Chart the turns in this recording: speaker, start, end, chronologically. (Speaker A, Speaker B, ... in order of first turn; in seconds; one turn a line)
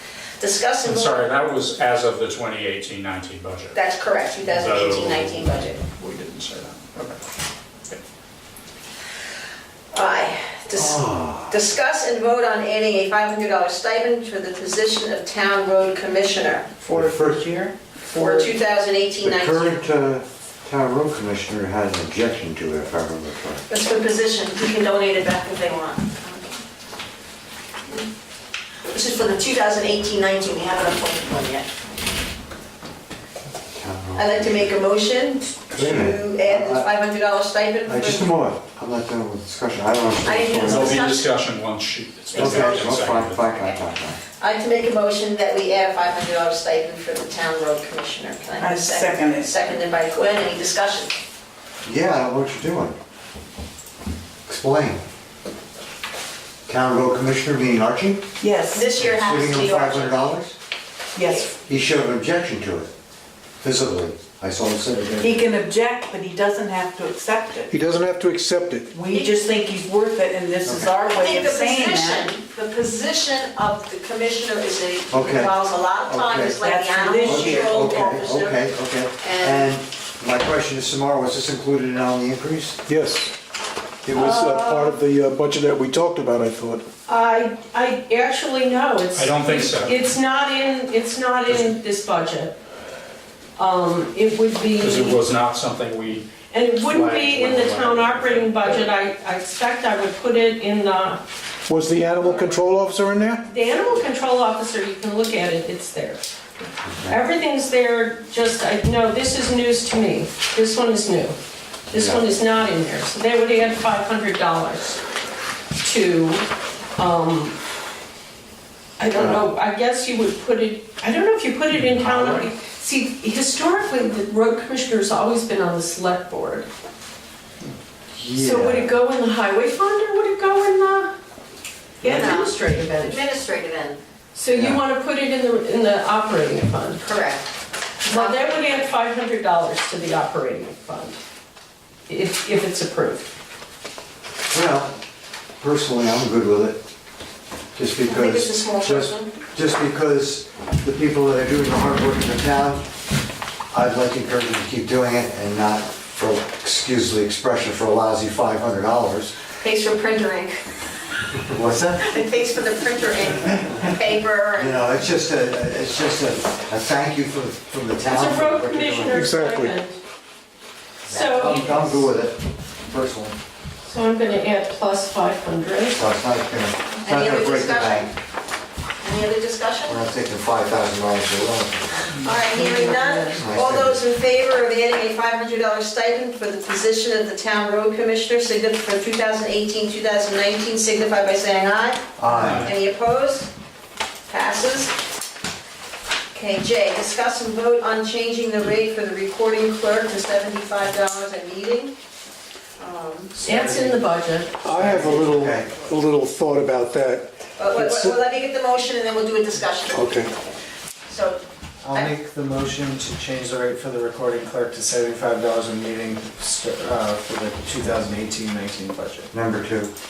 Speaker A: 0.4-1.3
Speaker B: 0.8-3.8
Speaker A: 3.7-5.8
Speaker B: 4.4-7.2
Speaker A: 9.9-16.7
Speaker C: 10.8-11.6
Speaker D: 16.8-18.5
Speaker C: 16.9-17.4
Speaker A: 18.1-19.8
Speaker C: 19.2-23.6
Speaker A: 23.7-26.6
Speaker A: 28.9-31.7
Speaker C: 33.7-34.8
Speaker A: 34.1-38.3
Speaker C: 35.7-36.9
Speaker C: 37.9-41.1
Speaker A: 40.2-41.3
Speaker B: 40.6-43.5
Speaker A: 42.3-43.0
Speaker C: 42.4-44.2
Speaker A: 44.4-51.1
Speaker D: 48.6-49.5
Speaker C: 51.8-53.0
Speaker C: 54.5-55.0
Speaker C: 56.7-58.3
Speaker D: 58.4-58.9
Speaker A: 58.7-60.3
Speaker C: 59.0-60.5
Speaker D: 61.1-61.5
Speaker A: 61.2-61.5
Speaker C: 61.6-62.9
Speaker C: 63.6-65.5
Speaker D: 65.2-67.7
Speaker E: 67.7-68.9
Speaker D: 68.9-72.3
Speaker A: 69.1-69.4
Speaker C: 70.6-70.9
Speaker A: 71.0-78.7
Speaker C: 75.1-75.5
Speaker C: 76.1-76.6
Speaker D: 76.5-77.8
Speaker C: 77.2-82.8
Speaker A: 79.2-79.7
Speaker E: 82.9-83.3
Speaker E: 84.0-86.9
Speaker F: 84.2-85.0
Speaker F: 87.1-92.6
Speaker B: 89.1-90.0
Speaker F: 93.6-95.2
Speaker B: 94.8-98.9
Speaker F: 96.5-101.2
Speaker E: 101.7-103.5
Speaker F: 103.5-106.2
Speaker C: 106.8-107.2
Speaker F: 107.0-111.4
Speaker F: 111.9-115.0
Speaker C: 111.9-112.4
Speaker F: 115.8-117.6
Speaker F: 119.0-126.7
Speaker C: 119.1-119.4
Speaker C: 128.1-128.9
Speaker F: 128.3-131.1
Speaker F: 132.0-133.3
Speaker A: 132.0-134.0
Speaker F: 134.3-137.0
Speaker C: 134.5-134.8
Speaker A: 137.0-137.5
Speaker F: 138.0-141.2
Speaker A: 138.1-138.8
Speaker F: 142.1-143.3
Speaker C: 144.5-145.0
Speaker C: 145.6-146.8
Speaker C: 147.8-152.9
Speaker A: 148.1-149.3
Speaker C: 153.7-159.4
Speaker A: 159.6-160.6
Speaker C: 161.5-162.1
Speaker A: 162.0-165.0
Speaker C: 164.6-169.4
Speaker F: 168.1-170.0
Speaker E: 169.1-169.8
Speaker C: 171.1-173.4
Speaker F: 171.1-172.1
Speaker F: 173.8-176.0
Speaker C: 175.9-178.1
Speaker A: 177.0-178.1
Speaker A: 179.0-180.0
Speaker C: 179.9-182.2
Speaker A: 182.2-193.5
Speaker F: 182.5-183.4
Speaker C: 183.3-184.0
Speaker C: 192.2-192.7
Speaker B: 192.3-192.7
Speaker A: 194.3-194.9
Speaker A: 196.3-201.9
Speaker A: 202.8-203.4
Speaker C: 203.3-204.0
Speaker F: 203.4-204.6
Speaker E: 204.6-208.2
Speaker C: 204.7-205.7
Speaker A: 207.6-210.5
Speaker E: 209.9-210.3
Speaker A: 211.1-212.2
Speaker G: 211.8-219.3
Speaker C: 219.3-219.9